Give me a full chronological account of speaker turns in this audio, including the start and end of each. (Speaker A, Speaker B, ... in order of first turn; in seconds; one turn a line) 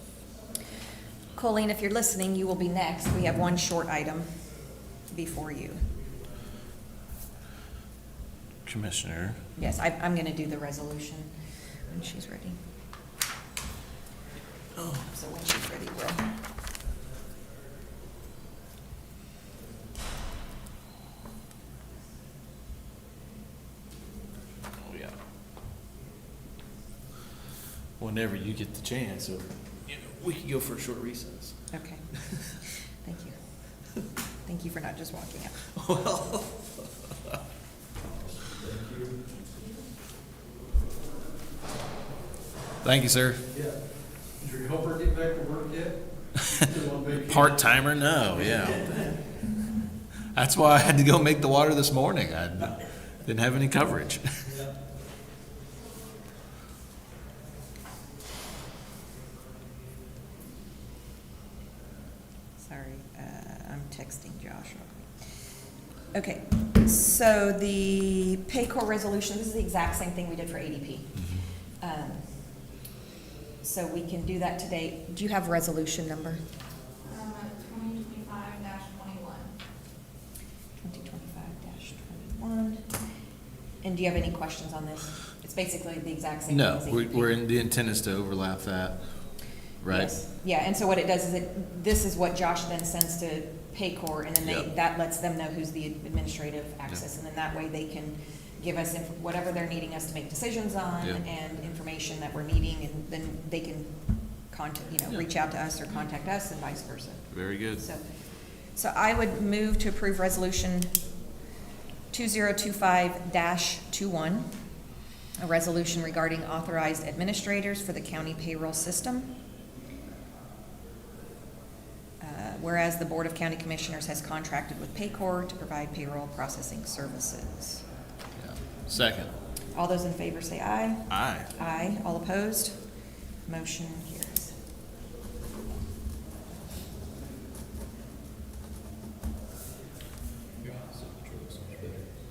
Speaker A: 1.3-4.3
Speaker A: 5.1-5.8
Speaker B: 8.7-9.4
Speaker A: 9.6-11.3
Speaker A: 11.9-12.6
Speaker B: 14.8-15.1
Speaker A: 15.1-16.2
Speaker B: 24.8-25.2
Speaker B: 28.0-32.6
Speaker A: 31.7-32.1
Speaker A: 32.6-33.4
Speaker A: 34.5-35.6
Speaker B: 35.7-37.4
Speaker C: 38.0-39.2
Speaker B: 42.8-43.4
Speaker C: 43.5-49.4
Speaker B: 47.3-48.8
Speaker B: 50.3-54.3
Speaker C: 54.4-54.7
Speaker A: 62.6-65.1
Speaker A: 66.1-71.3
Speaker B: 71.2-71.4
Speaker A: 71.8-72.2
Speaker A: 73.6-76.4
Speaker D: 77.0-79.5
Speaker A: 80.8-82.9
Speaker A: 83.8-87.3
Speaker B: 86.5-89.0
Speaker B: 89.8-90.1
Speaker A: 89.9-103.9
Speaker B: 94.4-94.7
Speaker A: 104.5-108.0
Speaker B: 107.3-107.8
Speaker A: 108.7-111.0
Speaker A: 112.1-114.5
Speaker A: 115.4-119.3
Speaker A: 122.2-127.8
Speaker B: 128.4-129.3
Speaker A: 129.7-132.8
Speaker B: 131.1-131.5
Speaker A: 133.4-134.6
Speaker B: 140.6-142.0